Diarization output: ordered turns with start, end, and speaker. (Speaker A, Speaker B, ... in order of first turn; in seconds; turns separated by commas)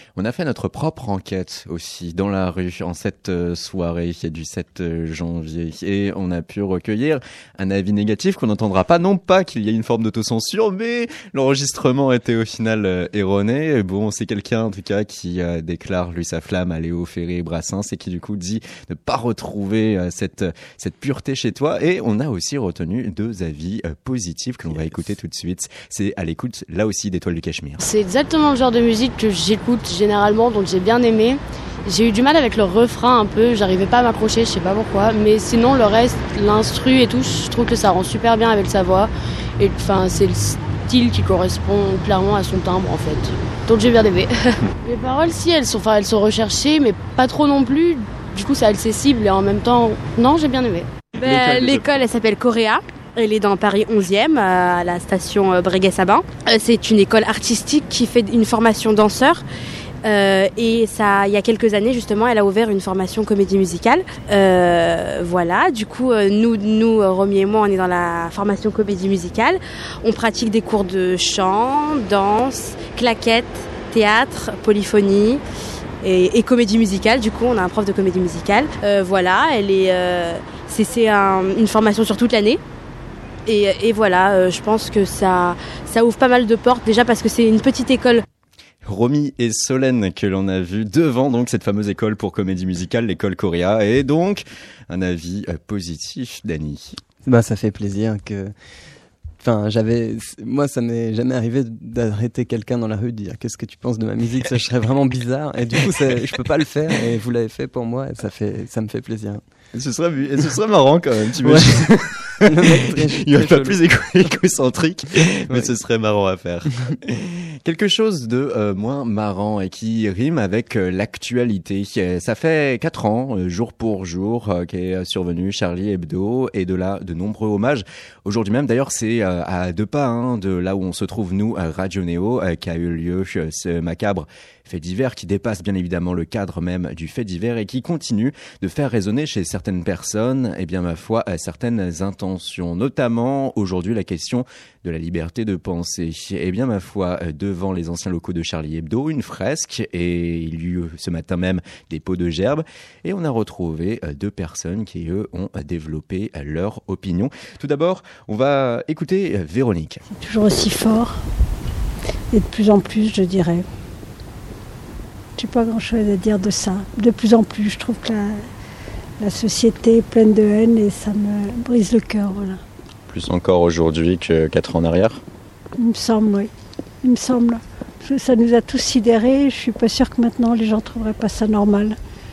Speaker A: 0.1-27.8, Speaker B: 27.8-50.9, Speaker C: 51.1-59.4, Speaker A: 51.2-51.8, Speaker C: 60.0-75.4, Speaker C: 76.0-82.6, Speaker C: 83.5-88.2, Speaker A: 88.8-97.0, Speaker D: 97.2-98.5, Speaker D: 99.4-109.4, Speaker A: 109.7-160.0, Speaker D: 111.4-113.8, Speaker E: 160.1-161.2, Speaker E: 162.3-163.7, Speaker E: 165.3-168.4, Speaker E: 169.2-172.6, Speaker A: 173.1-175.2, Speaker E: 175.8-176.5, Speaker E: 177.0-182.0